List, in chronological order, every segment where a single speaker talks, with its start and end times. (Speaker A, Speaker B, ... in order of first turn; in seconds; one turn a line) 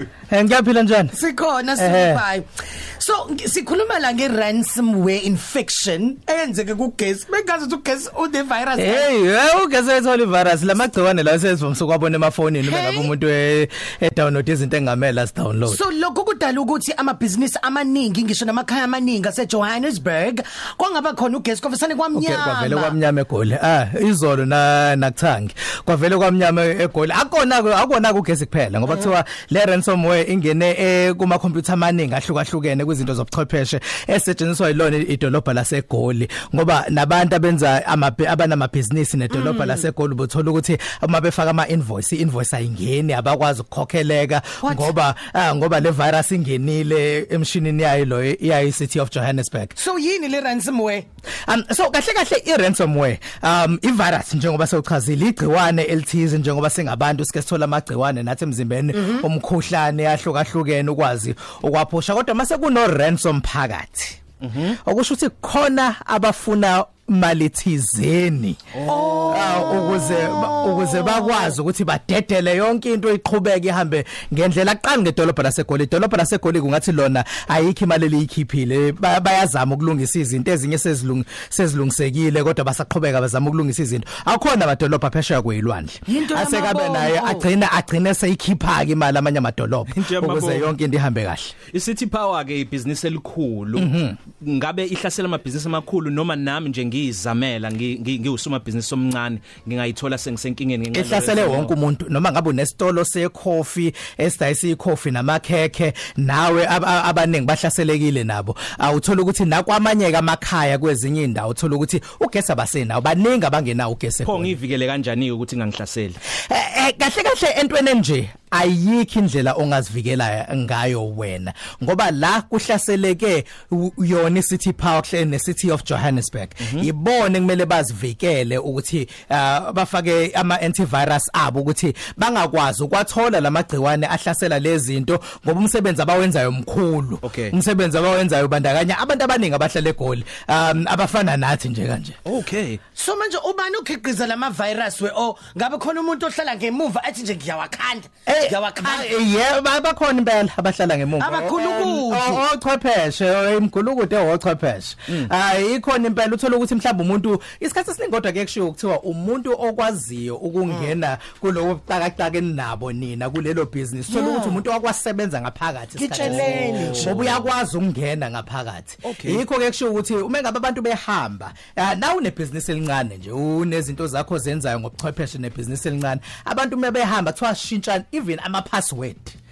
Speaker A: 0.3-1.1
Speaker B: 1.1-9.1
Speaker A: 1.8-2.2
Speaker A: 8.8-15.8
Speaker B: 12.6-13.1
Speaker B: 15.7-23.0
Speaker A: 22.1-49.7
Speaker B: 39.4-39.8
Speaker B: 44.6-44.9
Speaker B: 49.8-51.0
Speaker A: 51.5-91.5
Speaker B: 58.9-59.2
Speaker C: 64.4-64.7
Speaker B: 68.8-71.4
Speaker C: 68.8-69.3
Speaker B: 86.0-87.5
Speaker C: 89.9-90.7
Speaker C: 91.7-101.7
Speaker A: 93.8-94.2
Speaker A: 100.9-114.5
Speaker C: 114.2-116.2
Speaker A: 116.3-142.2
Speaker C: 126.6-126.9
Speaker C: 137.2-137.5
Speaker C: 142.2-142.8
Speaker B: 142.9-149.1
Speaker A: 148.3-179.3
Speaker B: 151.2-152.4
Speaker B: 160.7-160.9
Speaker B: 164.1-164.6
Speaker B: 166.0-167.2
Speaker C: 166.2-167.5
Speaker C: 169.0-169.4